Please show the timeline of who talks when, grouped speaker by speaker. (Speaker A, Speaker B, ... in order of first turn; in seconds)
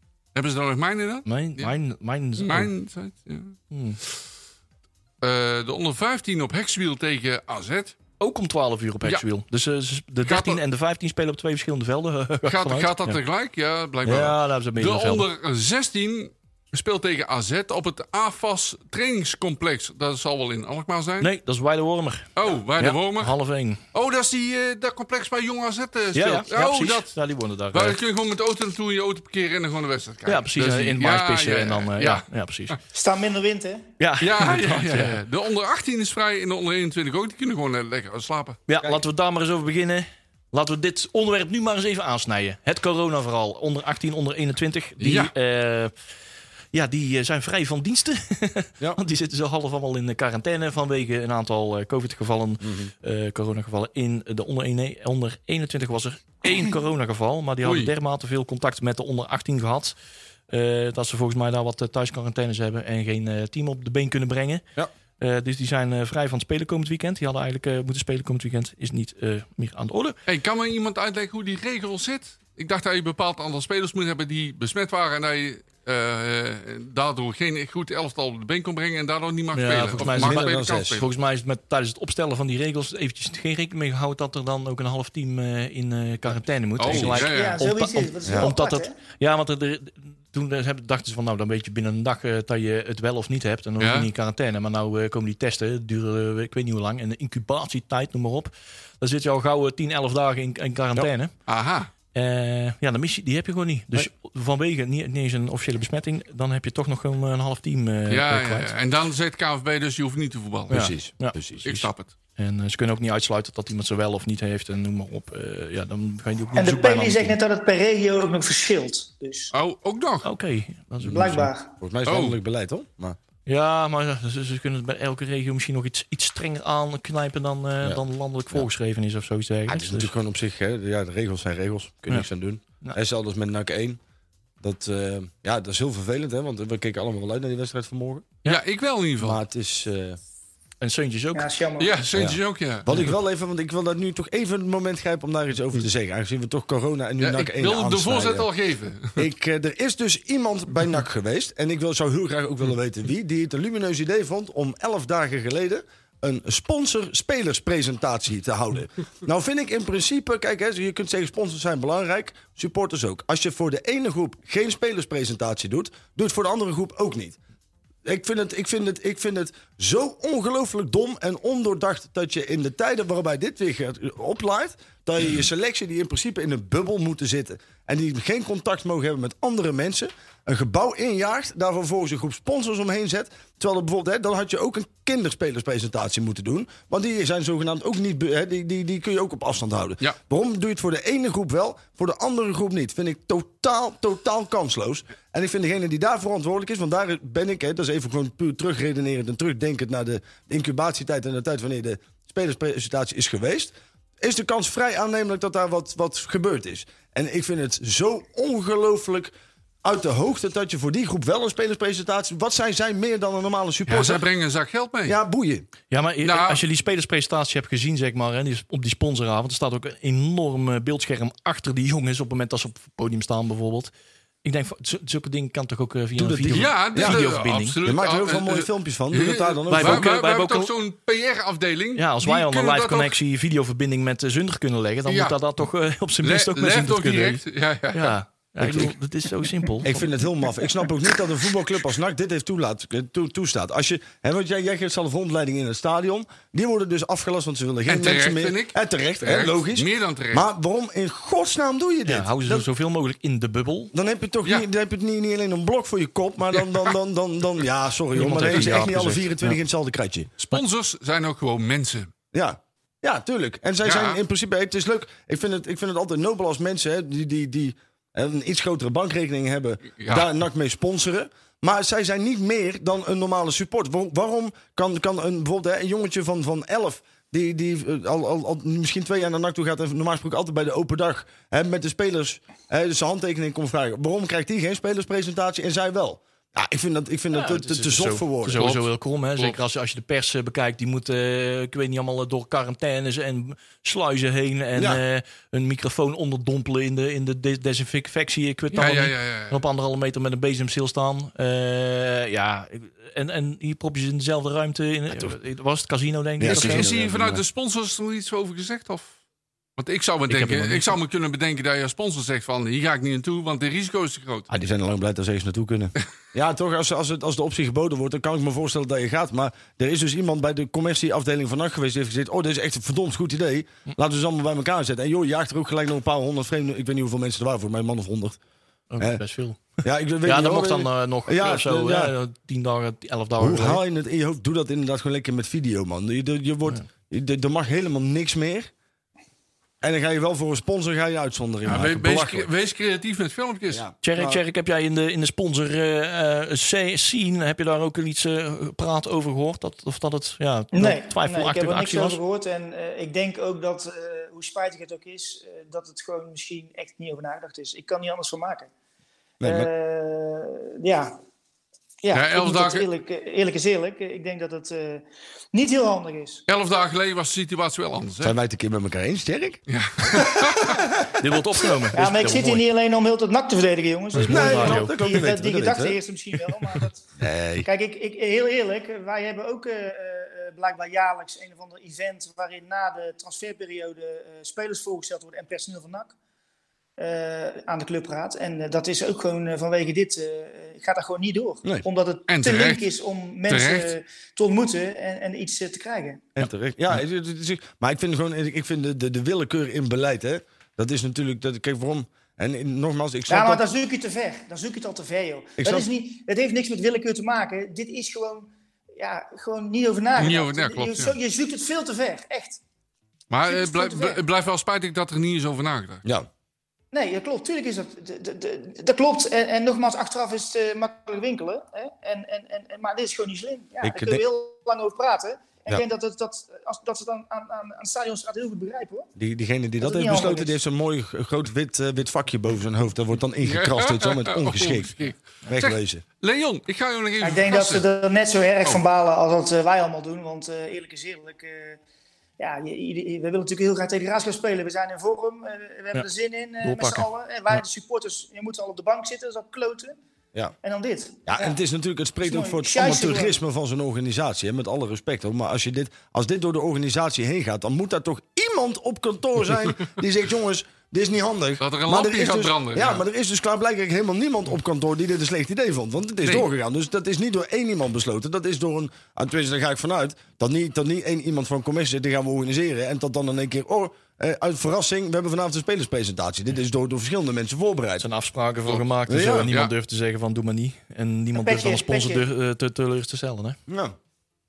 Speaker A: 0.3-1.7, 2.4-3.5, 5.2-8.0, 10.2-10.6, 12.5-21.3, 22.4-23.4, 23.9-27.1, 27.7-32.8, 34.2-38.6, 45.0-45.3, 57.6-57.9, 70.3-81.0, 86.8-87.6, 93.8-94.1, 101.5-101.9, 108.1-110.9, 111.6-112.1, 119.5-120.3, 122.1-122.4, 138.4-139.4, 141.8-142.9, 147.2-149.2, 213.9-215.2, 216.2-216.6, 226.5-233.2, 235.1-235.4, 236.2-238.2, 247.9-250.5, 258.4-258.8, 260.4-262.1, 263.8-264.2, 270.0-270.3, 288.6-289.6, 298.7-299.6, 306.4-309.1, 309.8-314.5, 341.7-343.8, 362.1-362.9, 366.5-368.4, 369.7-370.8, 392.3-392.9, 393.5-393.9, 410.2-411.2, 413.3-416.0, 433.4-437.9, 461.6-463.0
Speaker B: 1.3-2.7, 3.7-4.0, 8.2-13.2, 14.1-15.3, 21.2-23.8, 26.1-28.0, 30.3-32.8, 34.0-35.2, 38.7-45.9, 46.7-59.9, 60.5-64.7, 65.2-70.2, 79.5-101.3, 102.2-108.7, 110.7-117.4, 120.2-121.5, 123.5-130.1, 140.8-141.5, 215.9-223.9, 224.4-227.8, 229.7-230.7, 232.0-237.4, 237.9-240.1, 252.1-253.9, 258.1-259.6, 287.3-306.9, 310.3-311.0, 328.9-333.8, 344.0-352.2, 371.2-372.6, 374.2-374.9, 446.6-447.6, 478.0-483.6
Speaker C: 32.9-33.9, 87.2-89.0, 116.6-119.5, 121.1-121.7, 141.3-141.9, 350.7-358.7, 359.4-361.1, 362.0-366.4, 371.9-377.1, 377.6-386.1, 387.0-396.3, 403.3-412.6, 413.5-414.2, 416.9-429.1, 429.8-430.6, 437.2-441.8, 442.4-450.0, 450.6-451.6, 452.2-453.4, 481.4-482.3
Speaker D: 52.6-52.9, 80.0-81.0, 86.8-87.2, 88.2-88.5, 110.7-111.7, 121.8-123.2, 127.8-128.7, 129.7-134.0, 134.6-138.3, 139.2-140.2, 142.2-148.5, 149.2-167.4, 168.1-209.3, 209.8-214.2, 215.0-215.7, 226.2-227.2, 227.8-230.1, 238.6-238.9, 239.8-252.7, 253.9-260.3, 262.3-288.8, 294.8-295.0, 306.4-307.4, 314.5-328.4, 329.8-332.1, 333.4-338.7, 339.8-342.5, 343.7-344.4, 359.4-359.7, 368.2-371.1, 374.2-376.0, 377.2-377.7, 396.4-403.6, 405.6-405.9, 423.8-424.2, 429.2-434.9, 435.5-436.0, 451.3-478.1, 479.1-479.5, 483.7-484.0